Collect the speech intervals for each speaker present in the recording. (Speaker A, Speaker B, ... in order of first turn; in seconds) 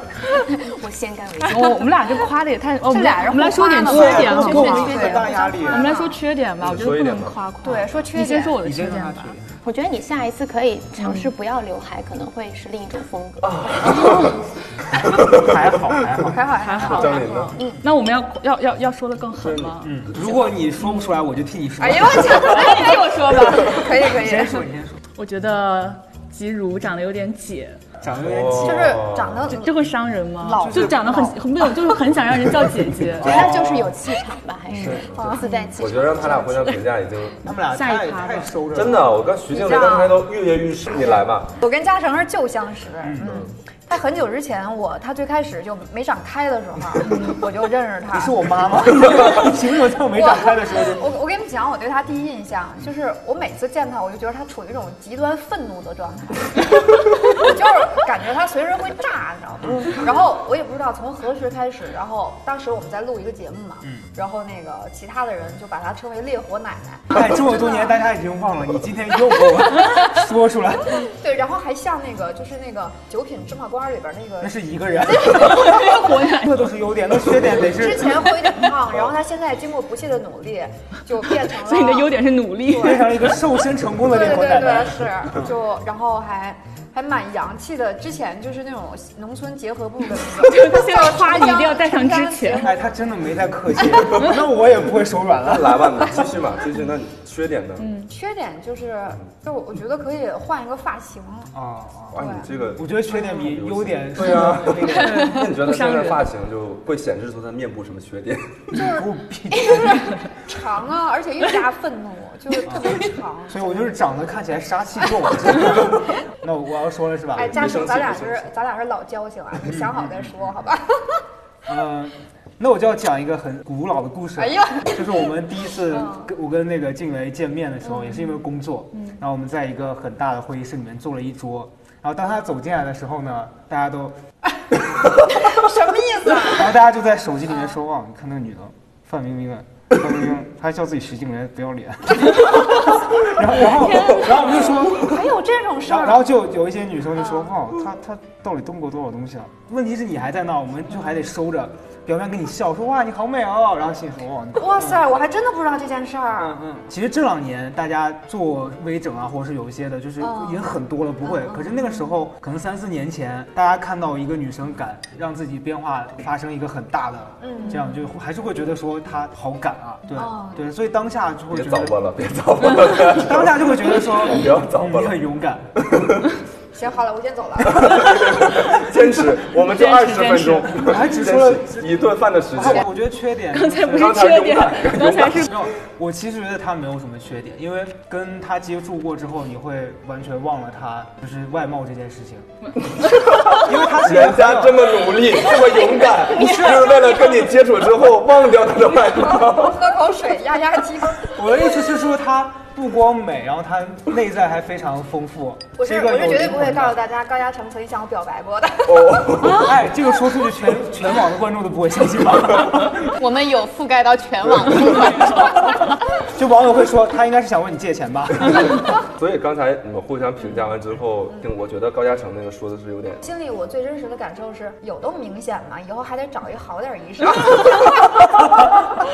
Speaker A: 0.4-1.9, 3.9-5.8, 9.6-13.4, 33.2-36.8, 213.0-215.7
Speaker B: 1.4-5.1, 5.7-9.3, 11.0-11.3, 13.8-14.4, 16.6-20.2, 20.8-21.1, 22.2-24.1, 25.2-27.8, 29.5-33.4, 34.7-35.7, 37.7-38.6, 47.0-47.4, 75.2-76.7, 81.2-83.4, 90.4-92.7, 97.8-98.1, 105.0-106.3, 128.9-129.2, 143.6-144.9, 179.5-181.0, 183.5-185.6, 192.7-193.4, 214.8-215.6
Speaker C: 2.9-6.2, 7.6-8.6, 16.3-17.5, 21.8-24.6, 28.6-29.8, 30.4-31.4, 35.1-35.5, 39.5-40.3, 40.9-48.5, 50.1-68.0, 71.0-76.0, 77.6-83.0, 84.0-93.2, 98.1-101.5, 102.1-102.5, 103.1-103.5, 108.7-114.0, 117.4-121.2, 124.4-125.2, 125.9-126.3, 135.3-136.7, 144.9-146.3, 147.2-147.5, 154.6-156.6, 160.2-162.1, 167.4-168.0, 170.1-170.7, 176.7-178.3, 199.2-201.4, 205.8-209.4, 223.2-228.7
Speaker D: 3.9-5.9, 8.6-9.5, 14.9-17.0, 19.8-23.0, 23.9-25.0, 28.0-29.1, 30.6-31.0, 33.2-34.0, 34.8-35.1, 37.4-39.2, 43.0-43.5, 48.1-51.1, 59.7-59.9, 67.1-71.1, 74.4-78.2, 82.7-85.5, 92.6-96.2, 101.5-105.5, 108.8-110.2, 112.7-117.8, 119.6-120.3, 121.7-134.2, 136.5-145.3, 145.8-155.0, 156.4-172.0, 172.8-175.7, 180.7-184.3, 185.3-192.5, 193.6-195.0, 196.3-196.9, 201.2-207.0, 209.5-213.1, 214.9-215.4, 216.2-218.8, 228.2-228.9
Speaker E: 6.6-7.4, 13.4-14.4, 14.9-15.5, 16.8-17.6, 19.4-20.1, 28.2-29.5, 35.8-37.4, 38.7-41.5, 43.2-43.5, 95.4-97.9, 102.1-108.8, 117.4-118.5, 171.5-175.2, 175.8-176.3, 177.6-182.9, 183.9-185.7, 192.9-199.9, 208.8-209.8, 218.5-223.2